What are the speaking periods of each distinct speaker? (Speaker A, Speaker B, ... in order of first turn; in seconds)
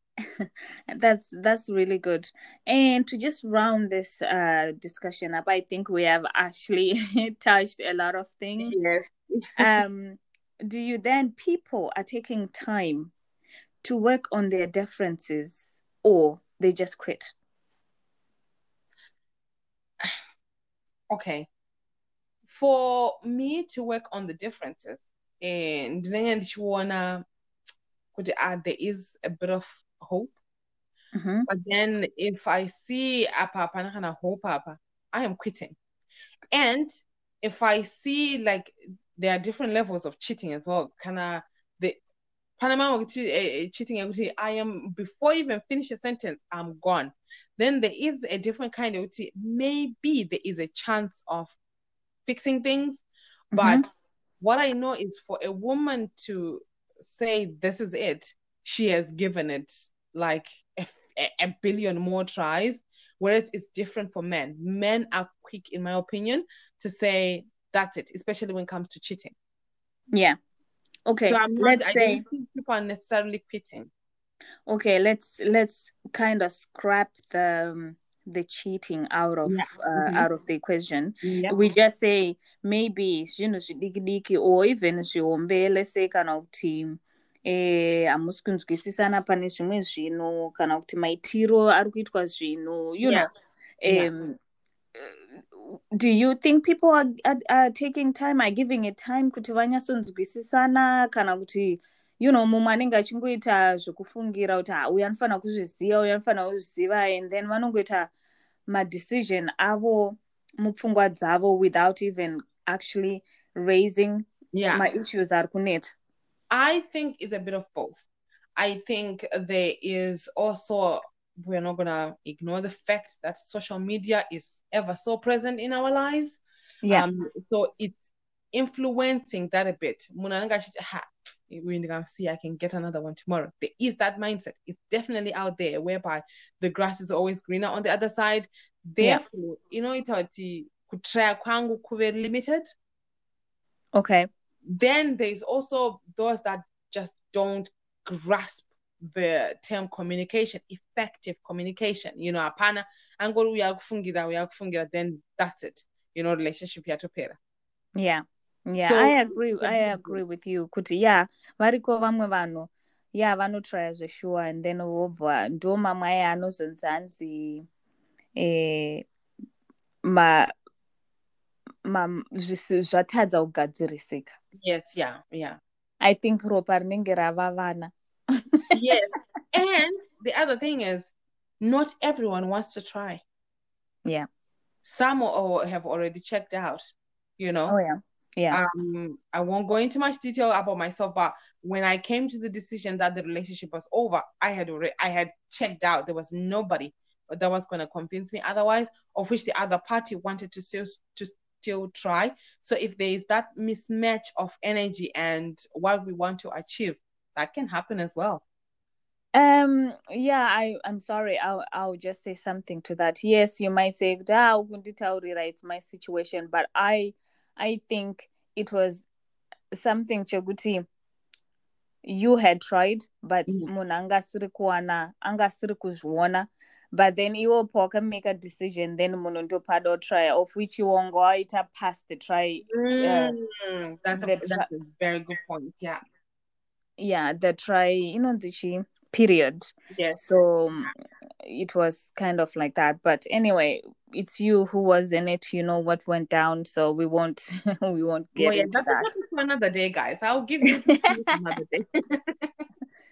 Speaker A: 0.3-8.8, 9.6-13.1, 13.8-17.3, 31.1-31.5, 53.5-53.8, 71.1-72.2, 74.7-93.3, 93.8-94.4, 95.0-108.1, 108.7-115.9, 143.9-144.3, 158.0-167.7, 168.4-169.1, 170.0-170.5, 171.8-174.3, 176.0-178.8, 187.7-188.6, 209.3-219.1, 219.7-220.8, 222.0-233.4, 234.2-234.7, 237.0-240.9, 241.4-249.1
Speaker B: 8.6-9.7, 21.1-21.5, 22.5-27.2, 28.1-30.4, 31.5-35.8, 36.5-42.0, 42.6-51.6, 52.3-53.0, 53.5-53.8, 54.4-69.3, 71.3-73.9, 79.4-80.3, 81.2-81.6, 93.0-93.3, 114.5-114.9, 116.5-118.0, 118.6-142.7, 144.7-157.4, 158.8-160.2, 174.6-175.6, 178.7-183.2, 184.8-187.8, 188.5-208.4, 232.7-236.0, 239.9-240.2, 248.4-252.7